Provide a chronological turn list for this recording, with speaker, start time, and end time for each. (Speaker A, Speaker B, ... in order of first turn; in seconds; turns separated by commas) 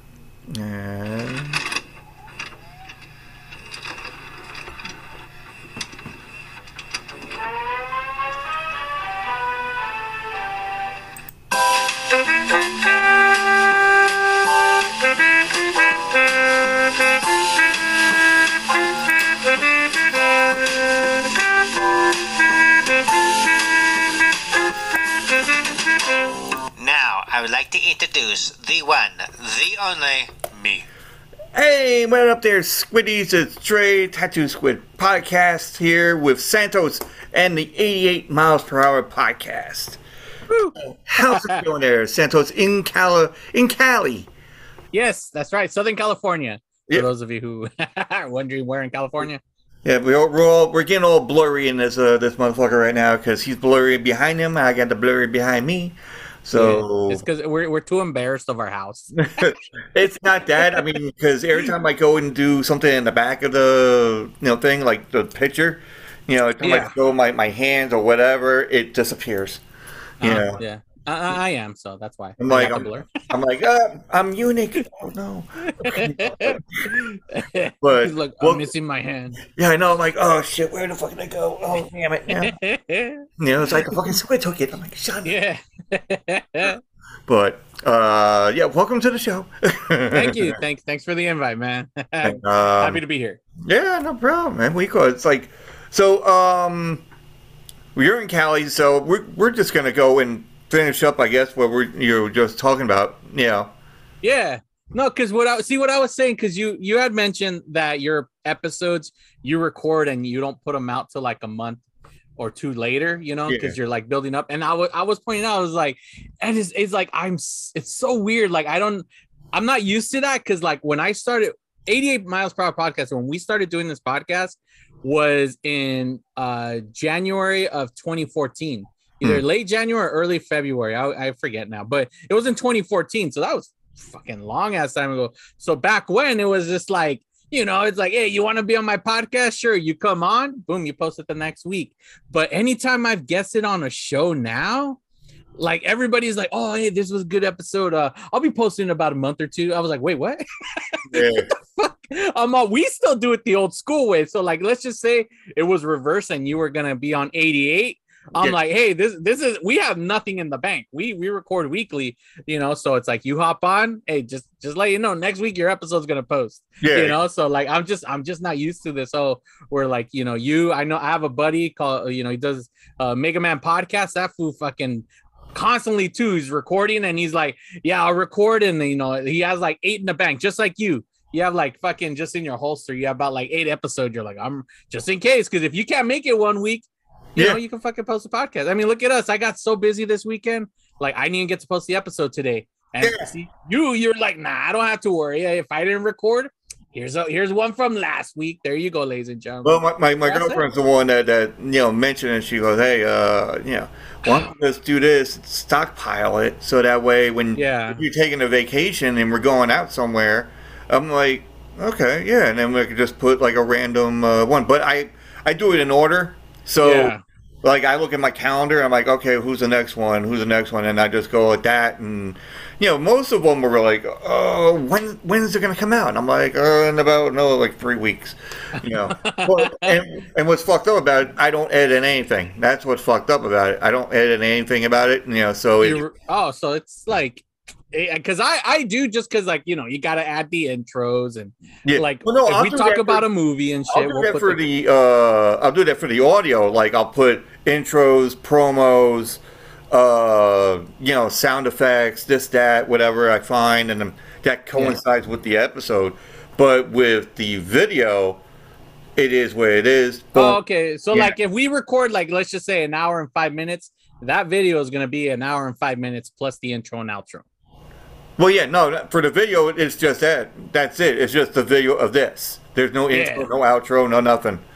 Speaker A: 0.5-1.6, Speaker B: 26.8-30.8, Speaker A: 31.5-40.0, Speaker C: 40.5-41.6, Speaker A: 40.8-44.3, Speaker C: 44.9-49.4, Speaker A: 49.8-57.2, Speaker C: 56.5-59.5, Speaker A: 59.4-69.6, Speaker C: 66.6-66.9, Speaker A: 70.2-70.6, Speaker C: 70.2-73.1, Speaker A: 72.4-77.0, Speaker C: 75.6-79.4, Speaker A: 77.8-78.7, Speaker A: 79.4-82.6, Speaker C: 82.3-83.3, Speaker A: 83.4-85.3, Speaker C: 85.2-86.8, Speaker A: 87.3-90.6, Speaker C: 90.1-93.4, Speaker A: 92.2-93.0, Speaker A: 93.6-97.0, Speaker A: 97.9-103.7, Speaker C: 104.2-111.8, Speaker C: 112.4-145.0, Speaker A: 113.5-113.8, Speaker C: 145.6-200.6, Speaker A: 151.1-151.5, Speaker A: 166.8-167.2, Speaker A: 187.3-187.6, Speaker A: 193.0-193.3, Speaker A: 199.6-236.0, Speaker C: 207.5-208.0, Speaker C: 216.8-217.2, Speaker C: 228.8-230.0, Speaker C: 235.8-244.6, Speaker A: 241.8-243.2, Speaker A: 243.9-258.4, Speaker A: 259.1-261.4, Speaker C: 260.3-267.4, Speaker A: 268.4-274.6, Speaker C: 273.1-273.5